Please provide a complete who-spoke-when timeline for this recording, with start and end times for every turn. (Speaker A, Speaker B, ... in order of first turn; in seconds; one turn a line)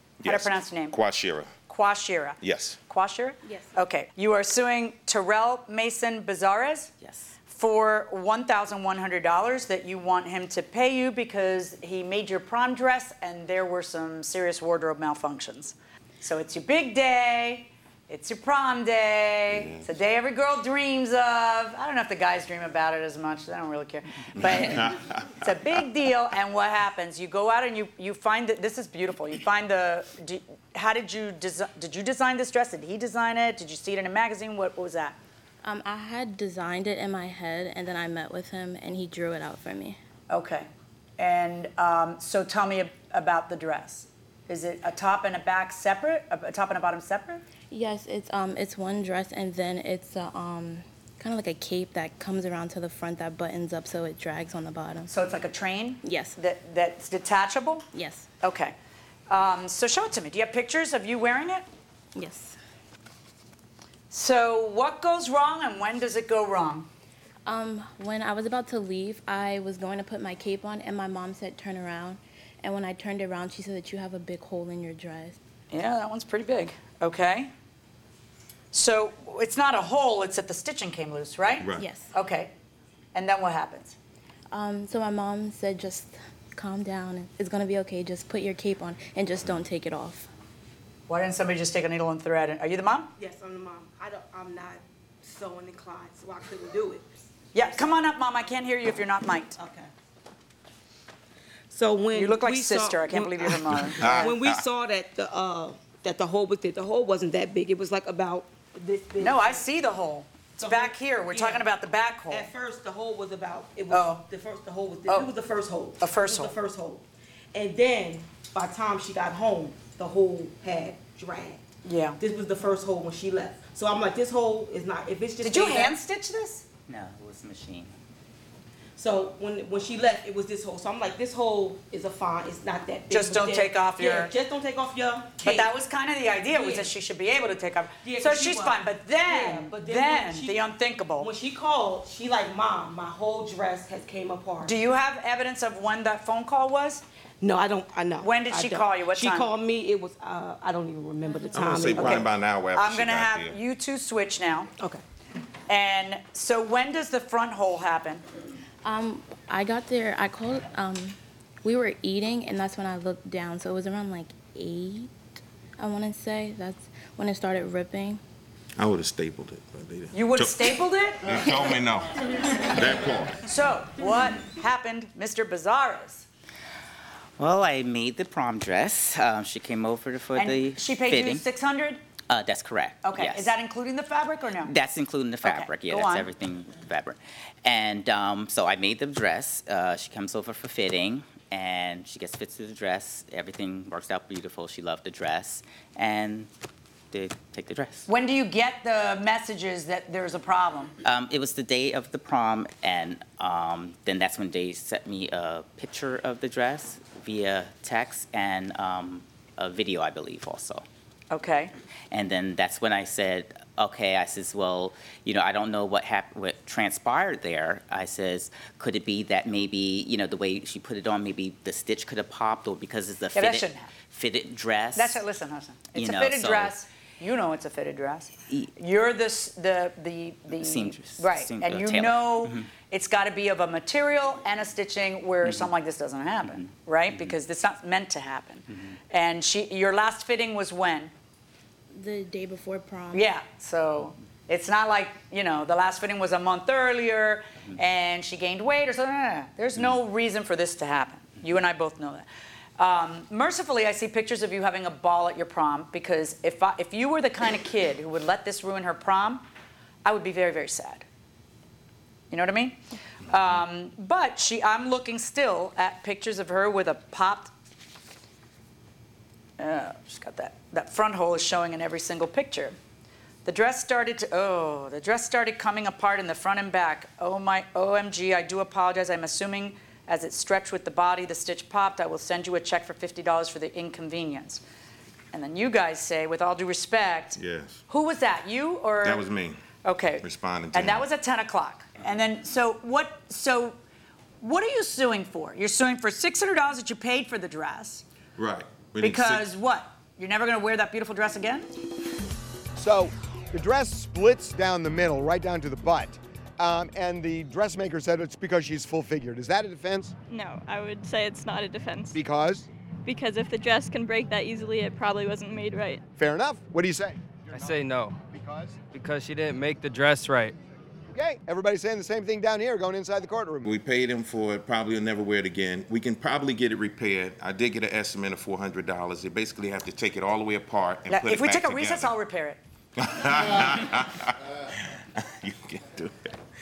Speaker A: 0.2-1.5
Speaker B: 0.2-1.0
Speaker B: 1.7-6.9
Speaker A: 2.4-2.8
Speaker C: 3.4-3.7
Speaker D: 7.0-7.3
Speaker B: 7.5-35.2
Speaker A: 19.5-19.9
Speaker A: 24.4-25.5
Speaker C: 35.6-40.0
Speaker B: 40.3-47.4
Speaker C: 47.7-55.1
Speaker B: 55.1-57.9
Speaker C: 56.0-56.4
Speaker C: 57.9-58.3
Speaker B: 58.4-58.8
Speaker B: 59.3-61.6
Speaker C: 62.1-62.6
Speaker B: 64.1-66.9
Speaker C: 67.5-75.4
Speaker B: 75.7-77.5
Speaker B: 78.7-82.5
Speaker A: 81.6-81.9
Speaker C: 81.8-82.1
Speaker B: 83.1-84.0
Speaker C: 84.5-90.3
Speaker B: 91.1-93.1
Speaker E: 93.2-97.8
Speaker B: 97.5-99.6
Speaker E: 99.5-99.9
Speaker E: 101.7-109.7
Speaker B: 102.1-104.4
Speaker A: 104.0-104.6
Speaker B: 109.2-112.5
Speaker E: 110.6-111.7
Speaker E: 112.3-121.6
Speaker B: 113.9-114.2
Speaker B: 115.1-115.3
Speaker B: 116.0-116.5
Speaker B: 121.8-122.2
Speaker E: 122.2-126.0
Speaker B: 125.4-126.6
Speaker D: 126.9-127.9
Speaker E: 129.0-135.7
Speaker B: 133.1-134.3
Speaker B: 135.4-141.3
Speaker E: 136.5-136.9
Speaker E: 138.0-140.6
Speaker E: 141.2-144.8
Speaker B: 144.6-147.0
Speaker E: 147.4-152.3
Speaker B: 148.2-149.5
Speaker A: 151.5-153.6
Speaker B: 151.9-154.7
Speaker B: 155.7-158.2
Speaker C: 158.8-168.2
Speaker A: 168.8-173.4
Speaker B: 170.1-171.4
Speaker B: 173.4-176.2
Speaker D: 177.4-181.4
Speaker B: 180.3-182.0
Speaker D: 182.3-183.5
Speaker B: 183.0-184.7
Speaker D: 184.6-196.5
Speaker B: 185.4-186.3
Speaker D: 197.1-198.1
Speaker B: 198.1-200.9
Speaker D: 201.0-210.8
Speaker B: 211.3-211.7
Speaker D: 212.1-225.2
Speaker B: 223.3-223.9
Speaker B: 224.9-241.1
Speaker D: 225.9-226.8
Speaker D: 230.5-232.7
Speaker D: 235.4-235.7
Speaker D: 236.4-237.3
Speaker C: 241.9-243.2
Speaker B: 243.1-252.3
Speaker B: 252.8-259.4
Speaker B: 260.0-261.0
Speaker B: 262.3-267.5
Speaker B: 269.6-272.8
Speaker B: 273.4-284.6
Speaker B: 285.3-289.2
Speaker A: 287.4-287.8
Speaker A: 289.0-289.6
Speaker B: 289.8-293.8
Speaker A: 290.2-291.0
Speaker B: 294.4-298.0
Speaker A: 298.4-299.5
Speaker B: 299.0-301.7
Speaker F: 302.8-310.1
Speaker G: 310.3-312.2
Speaker F: 312.1-312.7
Speaker G: 313.0-316.0
Speaker F: 316.2-318.8
Speaker H: 317.5-318.2
Speaker H: 318.9-320.6
Speaker F: 321.1-323.7
Speaker A: 323.6-332.1
Speaker B: 331.1-332.6
Speaker A: 333.0-336.3